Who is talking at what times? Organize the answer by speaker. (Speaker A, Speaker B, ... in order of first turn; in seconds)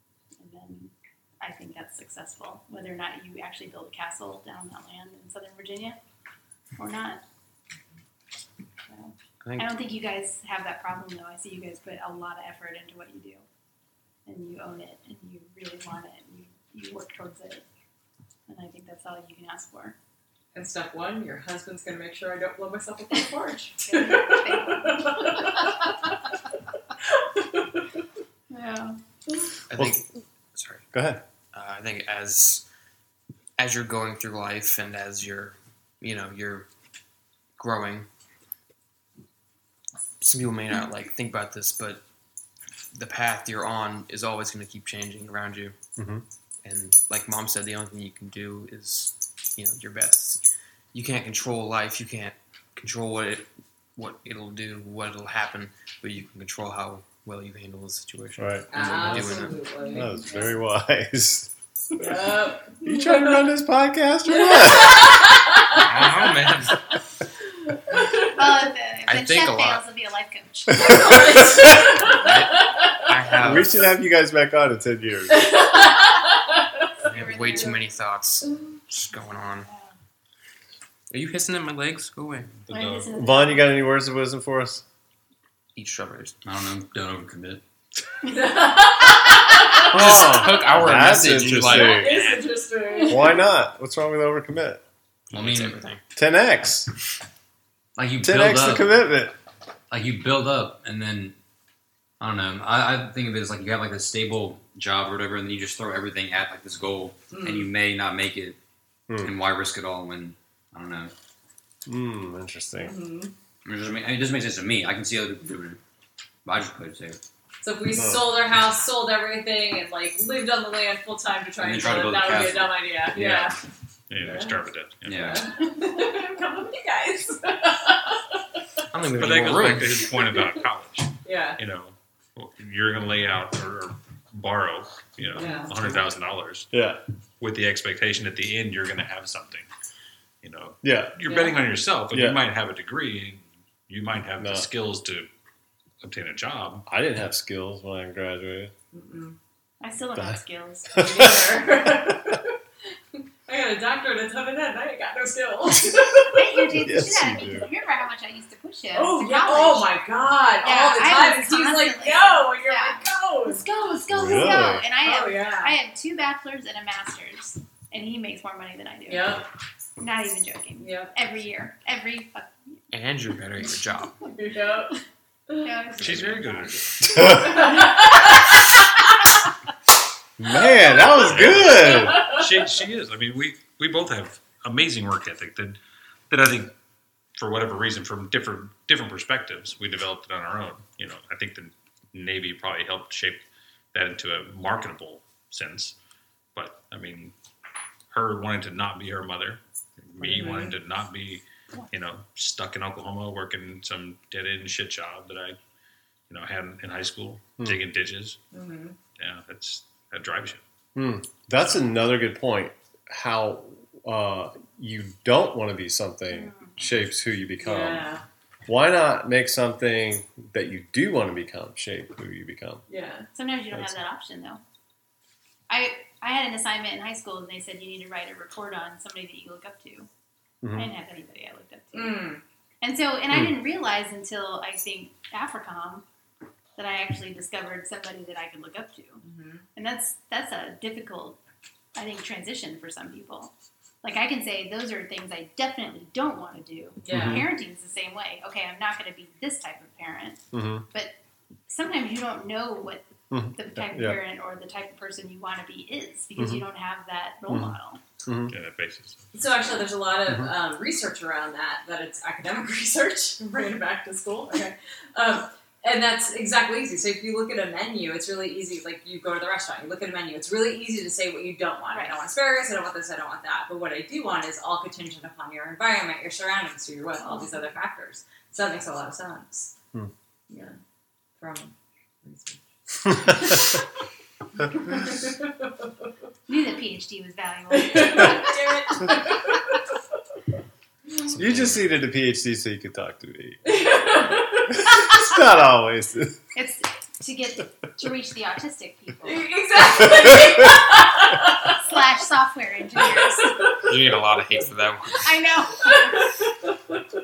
Speaker A: 0.4-6.0, 6.8-7.2, 8.9-13.4, 14.2-17.6, 18.5-19.9, 23.8-26.1, 28.5-29.0, 59.8-60.1, 68.2-71.4, 77.2-77.8, 79.7-79.9, 82.7-83.8, 149.8-151.6, 156.3-160.0, 160.6-169.4, 170.0-172.8, 175.6-176.7, 216.3-216.8, 223.3-224.6, 225.7-230.1, 230.7-232.3, 232.8-236.0, 236.8-239.2, 239.7-241.4, 241.9-251.2, 251.7-258.0, 271.9-272.3, 277.2-277.7, 286.5-289.0, 296.5-300.3, 301.8-303.6, 305.2-306.3
Speaker B: 9.4-9.7, 29.7-30.9, 31.5-32.6, 33.6-36.7, 37.6-38.1, 40.2-42.0, 42.9-45.8, 46.6-59.6, 65.7-66.8, 69.0-69.8, 71.6-73.9, 77.0-79.7, 81.1-82.5, 85.7-86.4, 89.8-92.5, 95.3-96.0, 128.9-130.1, 172.9-174.2, 303.8-305.5
Speaker C: 20.5-26.0, 27.1-27.9, 58.7-60.5, 62.0-63.4, 64.4-65.8, 67.7-68.3, 70.8-73.1, 75.3-76.9, 78.5-78.8, 88.2-89.9, 91.6-93.4, 107.3-107.7, 112.8-113.3, 117.6-123.5, 124.2-124.6, 125.2-128.8, 130.2-130.4, 131.2-131.6, 135.3-135.8, 148.9-149.4, 151.0-152.6, 153.2-156.6, 158.9-163.7, 165.0-165.8, 169.1-169.4, 170.8-171.2, 174.2-175.7, 177.2-179.3, 181.9-182.4, 200.2-200.7, 208.5-208.9, 217.6-218.2, 222.9-223.3, 231.9-232.4, 239.2-239.6, 247.0-247.4, 259.3-279.7, 280.5-280.8, 281.4-283.8, 284.7-285.8, 287.7-289.7, 293.6-295.0, 299.2-301.8, 303.1-303.8, 305.9-307.0
Speaker D: 29.8-30.0, 30.9-31.2, 46.0-46.2, 58.4-65.4, 71.0-71.9, 73.4-75.6, 83.1-84.8, 89.9-92.2, 93.1-94.8, 96.2-96.9, 98.2-99.3, 109.1-109.3, 111.8-112.9, 117.9-118.3, 136.7-137.0, 140.8-141.1, 142.1-142.4, 144.4-144.7, 146.9-148.7, 150.9-151.3, 152.0-152.3, 156.7-157.7, 164.1-164.8, 177.1-177.6, 180.4-182.3, 210.9-218.1, 218.7-222.8, 230.6-230.9, 247.1-247.4, 250.5-250.8, 253.3-254.2, 256.4-256.6, 257.5-258.5, 260.3-260.5, 291.4-293.6, 294.7-296.4
Speaker E: 82.6-83.1, 124.1-125.5, 129.1-136.7, 137.4-139.7, 140.4-145.3, 146.0-146.8, 176.0-177.5, 181.1-185.8, 186.3-186.7, 187.4-195.9, 196.5-197.3, 198.1-205.6, 206.3-208.4, 209.2-210.6, 258.5-259.2
Speaker F: 86.4-87.6, 95.3-95.8, 98.0-99.1, 99.9-101.3, 102.2-108.6, 109.2-111.1, 113.6-115.8, 116.4-117.2, 121.6-123.5, 125.0-125.5